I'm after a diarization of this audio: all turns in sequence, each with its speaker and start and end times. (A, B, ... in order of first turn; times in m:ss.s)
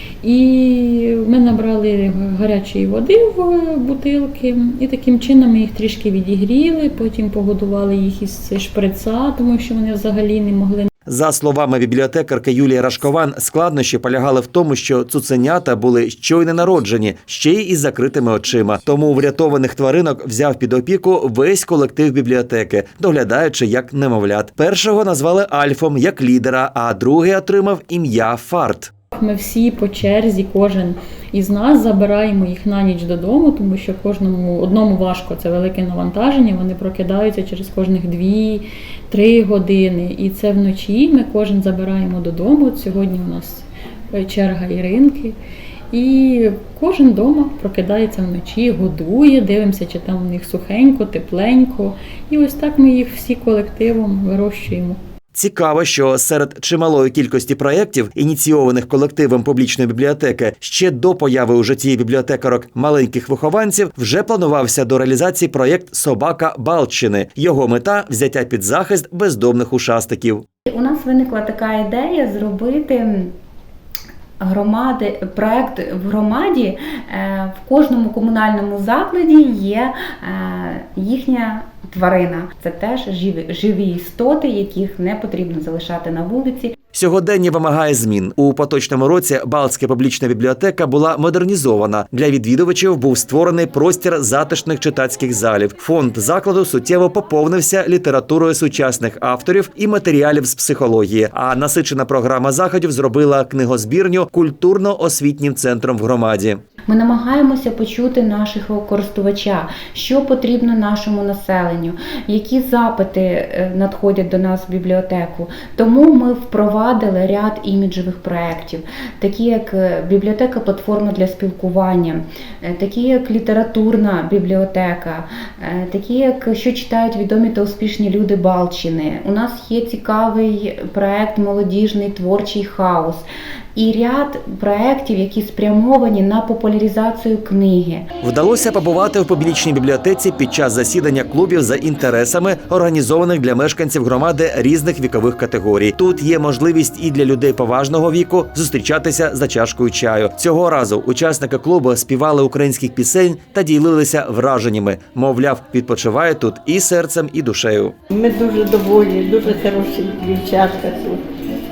0:00.2-0:10.9 A
0:11.1-0:28.9 B
0:29.1-0:45.3 A
0:45.9-0:55.0 A
0:55.3-1:10.4 B
1:10.7-1:13.3 C
1:14.4-1:26.7 C
1:26.9-1:46.6 B
1:46.9-2:18.1 C
2:18.2-2:37.9 B
2:38.1-2:41.2 D